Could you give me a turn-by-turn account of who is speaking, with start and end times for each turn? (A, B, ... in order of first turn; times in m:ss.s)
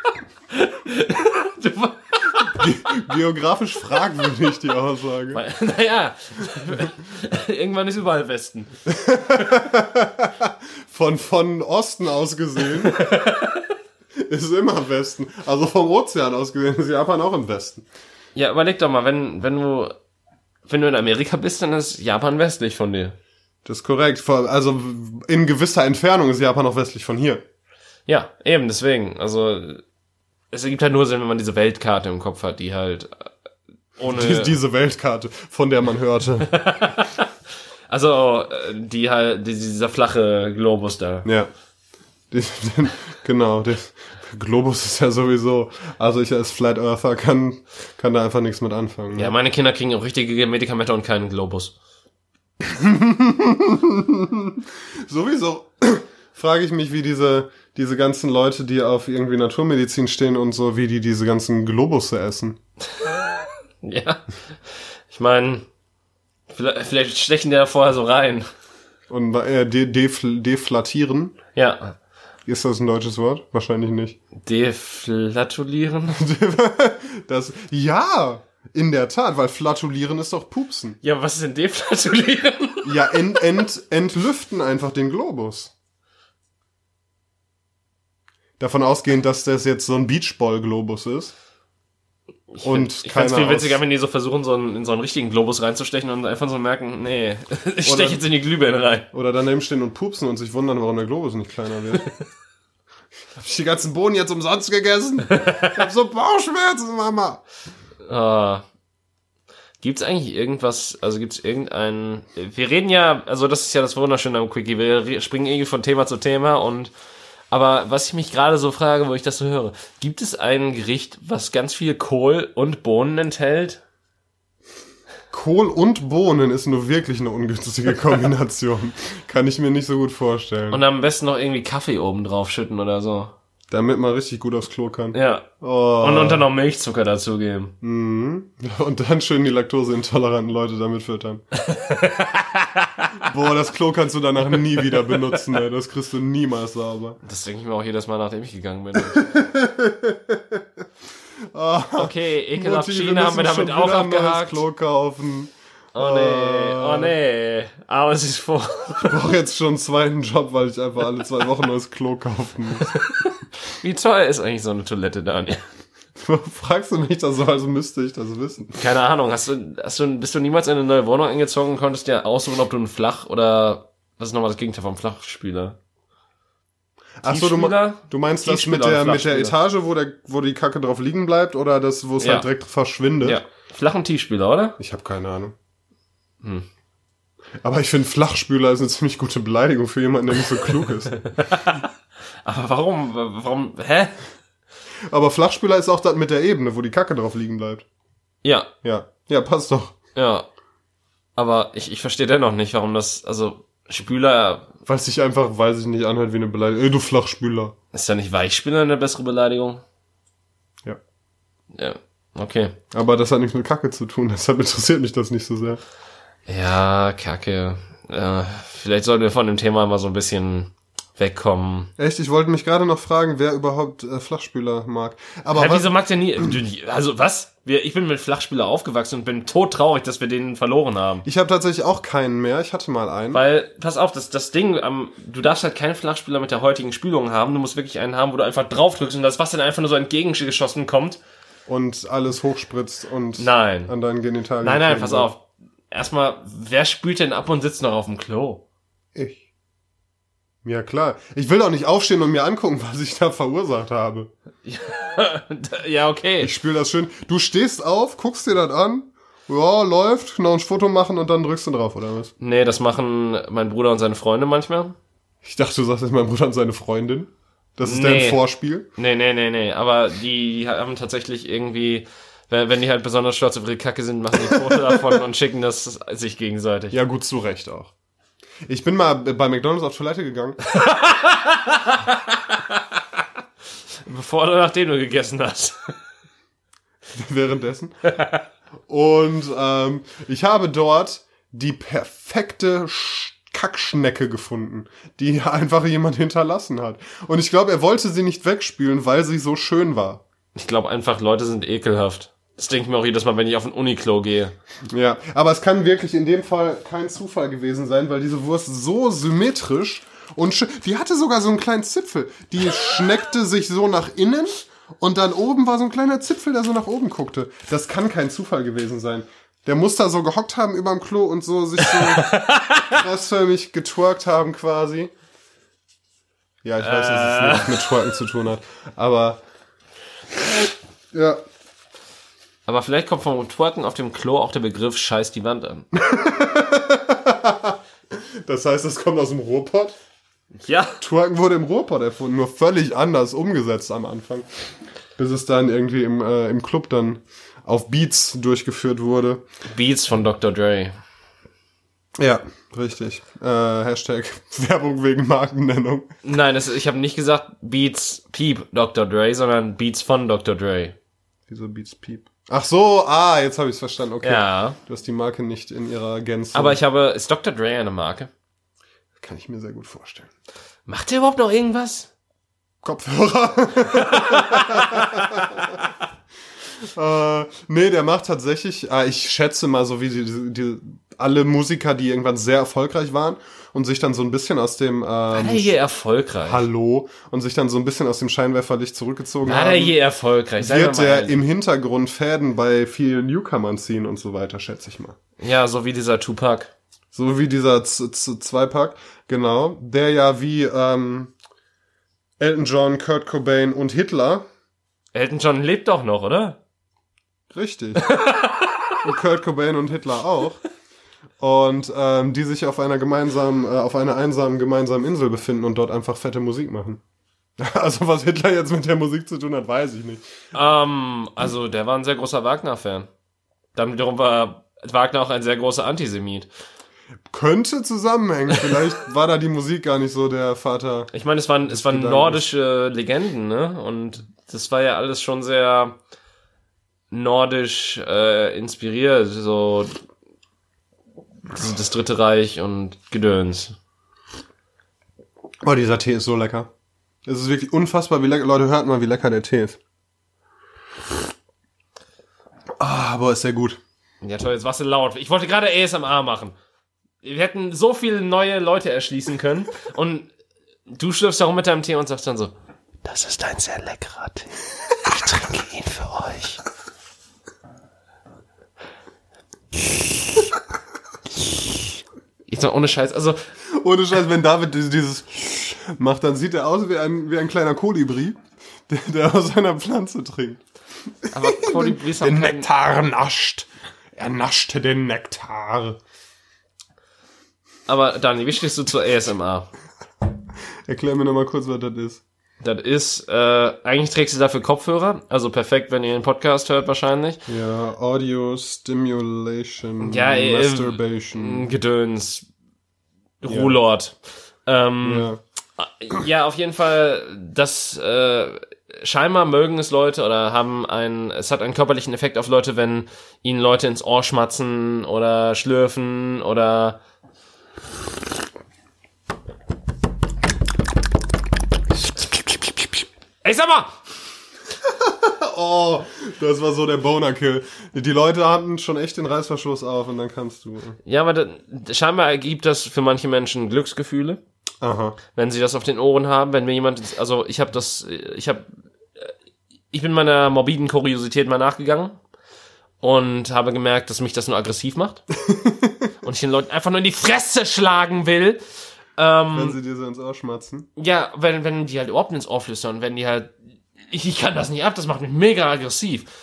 0:00.5-0:03.0 A
0:02.5-0:05.4 B
0:05.3-0:08.8 A
0:08.9-0:13.2 B
0:12.8-0:13.7 A
0:14.2-0:17.9 B
0:18.4-0:20.0 A
0:20.7-0:23.2 A
0:23.6-0:27.4 B
0:28.1-0:29.8 A
0:30.5-0:33.3 A
0:34.0-0:34.6 A
0:34.1-0:36.5 B
0:36.5-0:37.3 A
0:37.9-0:41.3 A
0:41.2-0:41.5 B
0:42.3-0:49.3 B
0:49.1-0:51.8 A
0:52.6-1:02.6 B
1:03.8-1:04.2 A
1:05.1-1:05.7 A
1:06.5-1:08.5 A
1:09.1-1:11.4 B
1:11.6-1:12.0 A
1:12.5-1:14.2 B
1:14.4-1:16.2 A
1:16.1-1:21.0 B
1:21.0-1:23.4 A
1:22.8-1:25.7 B
1:28.6-1:31.3 B
1:32.5-1:39.1 A
1:32.6-1:33.8 B
1:37.8-1:38.2 B
1:39.1-1:42.1 B
1:43.4-1:47.4 B
1:45.3-1:45.8 A
1:48.1-1:48.6 A
1:49.8-1:56.9 A
1:57.5-2:03.8 A
2:05.3-2:10.8 B
2:10.7-2:13.3 A
2:13.7-2:16.5 B
2:15.1-2:15.5 A
2:16.0-2:17.7 A
2:17.8-2:21.4 B
2:21.5-2:23.3 A
2:23.2-2:27.2 B
2:24.8-2:25.4 A
2:27.2-2:29.3 A
2:29.0-2:30.8 B
2:31.4-2:37.1 B
2:32.0-2:34.6 A
2:36.0-2:39.3 A
2:39.0-2:43.0 B
2:42.9-2:45.6 A
2:46.2-2:48.8 B
2:48.8-2:55.8 A
2:57.2-3:03.4 B
2:57.3-2:59.6 A
3:02.2-3:02.5 A
3:03.2-3:04.8 A
3:04.8-3:05.6 B
3:07.6-3:11.2 B
3:11.1-3:11.9 A
3:12.4-3:14.2 A
3:15.1-3:17.8 B
3:18.4-3:18.7 A
3:18.8-3:20.0 B
3:20.2-3:20.5 A
3:21.4-3:24.7 A
3:24.9-3:27.8 B
3:27.9-3:29.8 A
3:31.8-3:32.8 A
3:32.9-3:35.8 B
3:36.5-3:41.9 A
3:42.0-3:46.5 B
3:45.5-3:51.2 A
3:51.2-3:53.4 B
3:53.3-4:01.2 A
4:01.7-4:05.3 B
4:03.4-4:03.9 A
4:04.6-4:08.6 A
4:09.2-4:09.4 B
4:10.6-4:14.3 B
4:14.6-4:16.5 A
4:16.4-4:22.3 B
4:22.4-4:25.0 A
4:25.4-4:28.9 B
4:27.8-4:28.4 A
4:29.0-4:37.0 A
4:34.5-4:35.0 B
4:36.9-4:37.9 B
4:38.7-4:40.6 B
4:40.7-4:43.0 A
4:44.1-4:45.9 A
4:47.1-4:48.2 B
4:48.9-5:00.2 B
5:00.6-5:04.5 A
5:04.9-5:25.1 B
5:21.8-5:23.0 A
5:26.6-5:29.4 B
5:26.8-5:28.1 A
5:31.1-5:31.4 B
5:32.7-5:35.9 A
5:35.9-5:40.0 B
5:40.6-5:41.0 A
5:41.0-5:44.5 B
5:45.2-5:49.4 B
5:49.7-5:50.9 A
5:52.2-5:56.1 B
5:56.2-6:01.0 A
6:01.5-6:06.8 B
6:04.2-6:04.8 A
6:06.5-6:08.3 A
6:09.2-6:10.3 B
6:10.9-6:12.1 A
6:12.8-6:15.9 B
6:13.9-6:15.7 A
6:16.8-6:25.7 B
6:25.3-6:26.7 A
6:26.5-6:30.0 B
6:29.4-6:31.4 A
6:30.6-6:35.2 B
6:35.4-6:36.7 A
6:37.1-6:41.3 B
6:42.4-6:44.4 B
6:45.1-6:46.6 A
6:47.5-6:48.2 B
6:48.0-6:49.0 A
6:49.0-6:50.6 B
6:51.4-6:57.0 B
6:57.6-7:00.2 B
7:00.5-7:03.1 A
7:03.8-7:06.5 A
7:07.3-7:11.1 B
7:11.1-7:16.0 A
7:11.7-7:12.4 B
7:17.1-7:19.9 A
7:21.5-7:23.8 A
7:25.6-7:26.7 B
7:27.3-7:29.8 B
7:32.8-7:33.8 B
7:34.2-7:36.5 A
7:37.2-7:40.3 A
7:40.9-7:42.5 A
7:43.0-7:46.6 A
7:52.5-7:53.4 A
7:53.7-8:00.6 B
8:01.2-8:06.0 B
8:01.3-8:02.7 A
8:07.9-8:09.7 A
8:10.9-8:12.2 B
8:12.6-8:17.5 A
8:17.5-8:21.7 B
8:20.0-8:22.5 A
8:23.4-8:37.0 A
8:23.5-8:23.8 B
8:25.0-8:25.4 B
8:43.4-8:44.0 A
8:44.8-8:51.0 B
8:51.0-8:54.4 A
8:54.8-8:55.2 B
8:55.4-8:58.6 A
8:59.9-9:02.2 A
9:03.0-9:05.2 A
9:05.4-9:06.1 B
9:06.2-9:08.6 A
9:09.2-9:09.8 A
9:09.5-9:10.9 B
9:11.0-9:13.6 A
9:14.1-9:16.3 A